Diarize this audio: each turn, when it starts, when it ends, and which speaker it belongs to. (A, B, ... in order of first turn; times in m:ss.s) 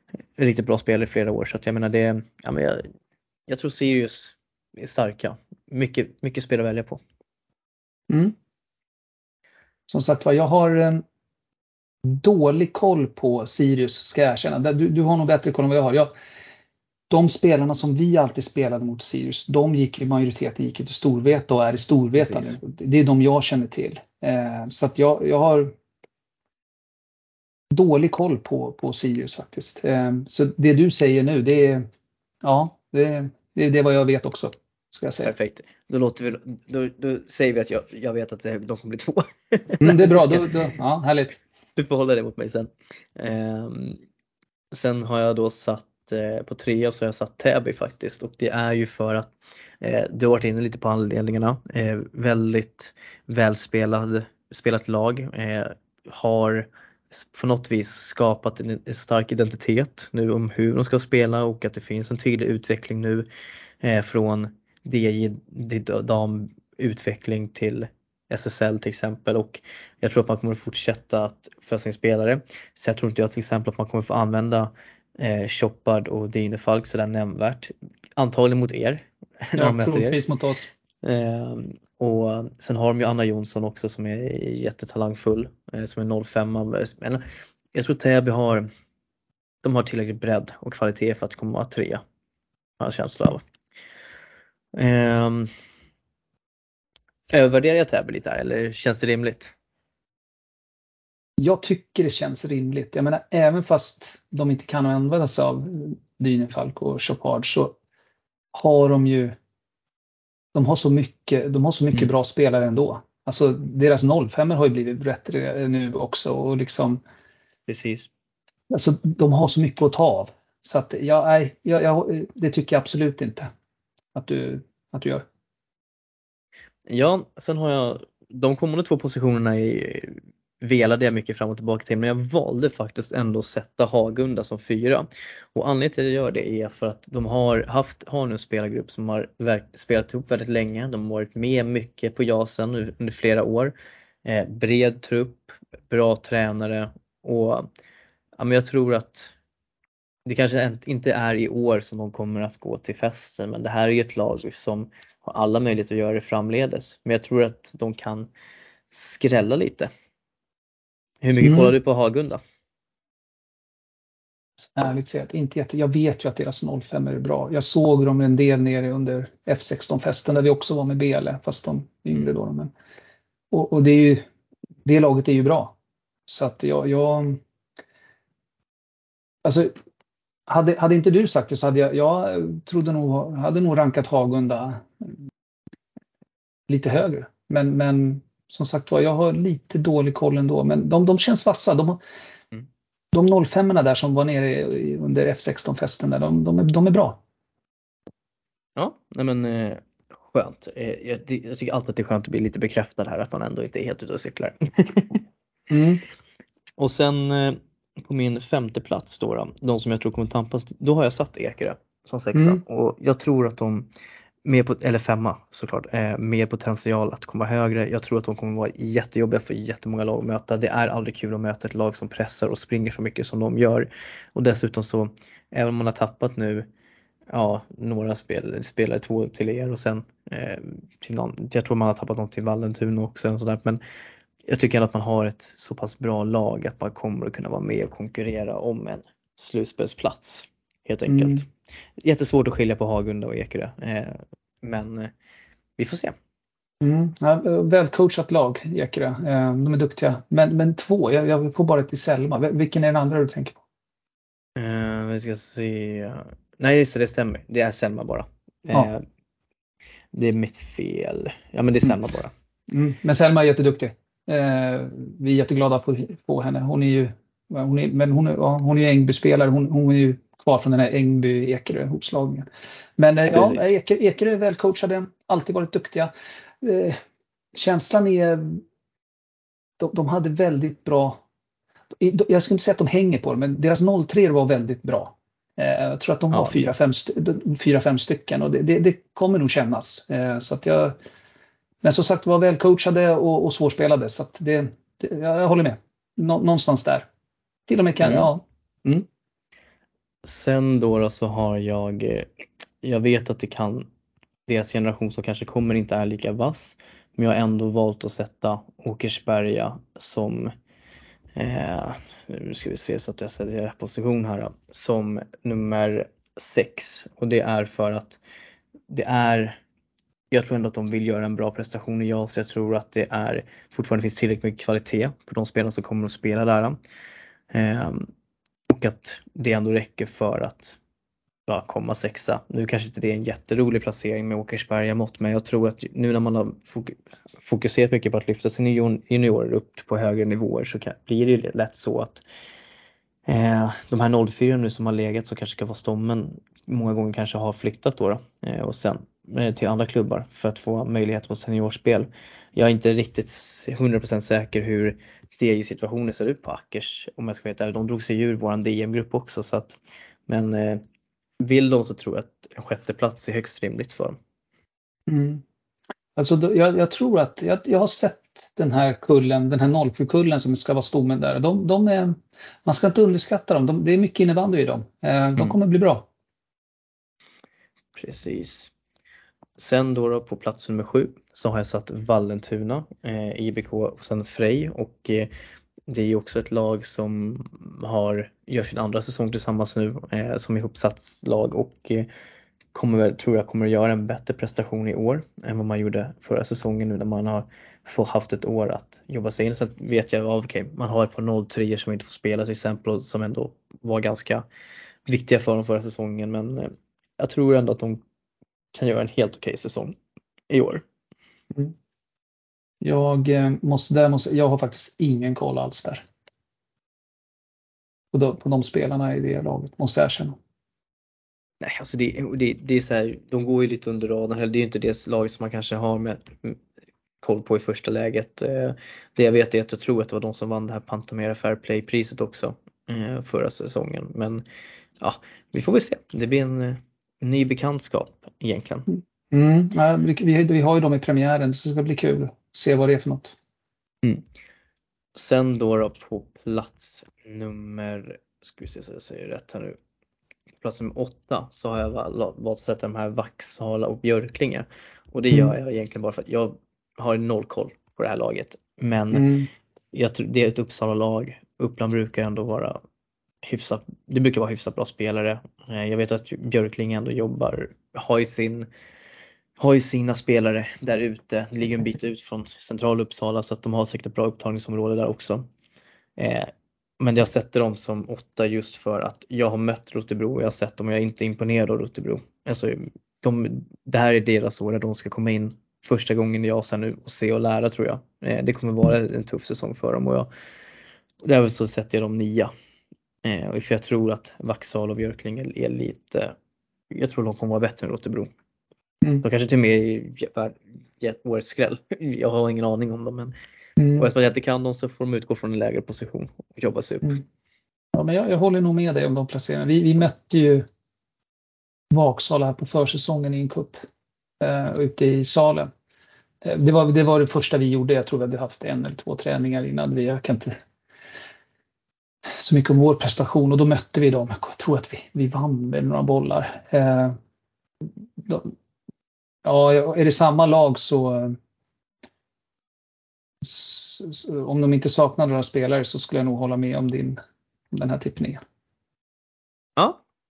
0:00.4-0:02.9 A
0:03.5-0:07.0 A
0:08.1-0:08.4 B
0:09.9-0:11.0 B
0:12.0-0:16.1 B
0:17.1-0:25.7 B
0:22.2-0:22.6 A
0:27.7-0:31.9 B
0:32.4-0:35.3 B
0:35.2-0:40.5 A
0:39.8-0:41.4 B
0:41.8-0:44.0 A
0:44.7-1:03.3 A
1:03.8-1:20.2 A
1:19.6-1:20.7 B
1:21.0-1:28.7 A
1:29.6-1:32.0 A
1:32.8-1:33.4 A
1:34.8-1:35.5 A
1:37.3-1:39.5 A
1:41.4-1:47.8 B
1:48.5-1:49.4 B
1:50.5-1:57.0 B
1:57.7-1:58.1 A
1:58.7-2:03.5 B
2:04.2-2:05.2 B
2:06.9-2:27.7 A
2:28.4-2:29.3 A
2:30.3-2:38.3 A
2:38.9-2:39.9 A
2:41.2-2:42.4 A
2:41.4-2:41.7 B
2:44.8-2:52.7 B
2:53.5-2:54.2 B
2:54.8-2:55.8 B
2:56.3-2:57.4 B
2:59.4-2:59.7 B
3:00.5-3:05.2 B
3:06.7-3:12.0 B
3:13.1-3:17.2 B
3:18.8-3:25.2 A
3:25.7-3:26.0 B
3:26.8-3:33.9 A
3:32.4-3:32.6 B
3:34.4-3:46.7 A
3:47.3-3:53.8 A
3:54.5-4:05.1 A
4:01.1-4:01.4 B
4:05.8-4:06.2 A
4:06.8-4:13.6 B
4:14.6-4:19.0 A
4:20.1-4:22.3 A
4:22.7-4:32.5 B
4:33.0-4:37.0 B
4:33.3-4:33.6 A
4:37.6-4:38.6 B
4:39.8-4:41.2 B
4:42.0-4:51.0 B
4:46.3-4:46.6 A
4:51.8-4:57.1 B
4:57.7-4:59.0 B
4:58.0-4:58.3 A
5:00.2-5:02.3 A
5:02.8-5:03.9 A
5:04.5-5:10.5 A
5:11.4-5:18.2 A
5:18.9-5:19.6 A
5:20.3-5:26.8 A
5:27.5-5:28.1 A
5:28.7-5:30.8 A
5:31.5-5:42.2 A
5:43.3-6:00.8 A
6:01.4-6:04.2 A
6:05.1-6:05.4 B
6:06.2-6:16.1 B
6:18.0-6:18.7 A
6:19.6-6:25.3 A
6:25.9-6:32.1 A
6:32.7-6:44.4 A
6:45.1-6:48.0 A
6:48.7-6:50.0 A
6:50.5-6:50.8 A
6:52.8-6:56.1 B
6:58.1-7:00.4 B
7:01.6-7:06.6 A
7:07.2-7:14.4 A
7:15.0-7:18.9 A
7:18.9-7:23.4 B
7:25.2-7:29.8 A
7:30.6-7:39.3 A
7:39.1-7:39.5 B
7:39.9-7:42.8 A
7:43.4-7:48.7 A
7:49.6-7:55.5 A
7:56.2-8:10.3 A
8:11.2-8:12.5 A
8:13.2-8:16.4 A
8:16.9-8:18.3 A
8:19.2-8:23.3 A
8:23.8-8:24.1 B
8:23.9-8:27.2 A
8:27.9-8:30.7 B
8:31.9-8:33.8 B
8:34.4-8:35.7 B
8:36.4-8:40.6 B
8:42.4-8:47.2 B
8:48.2-8:48.5 B
8:49.4-8:51.4 B
8:53.4-8:57.2 B
8:57.7-8:58.4 B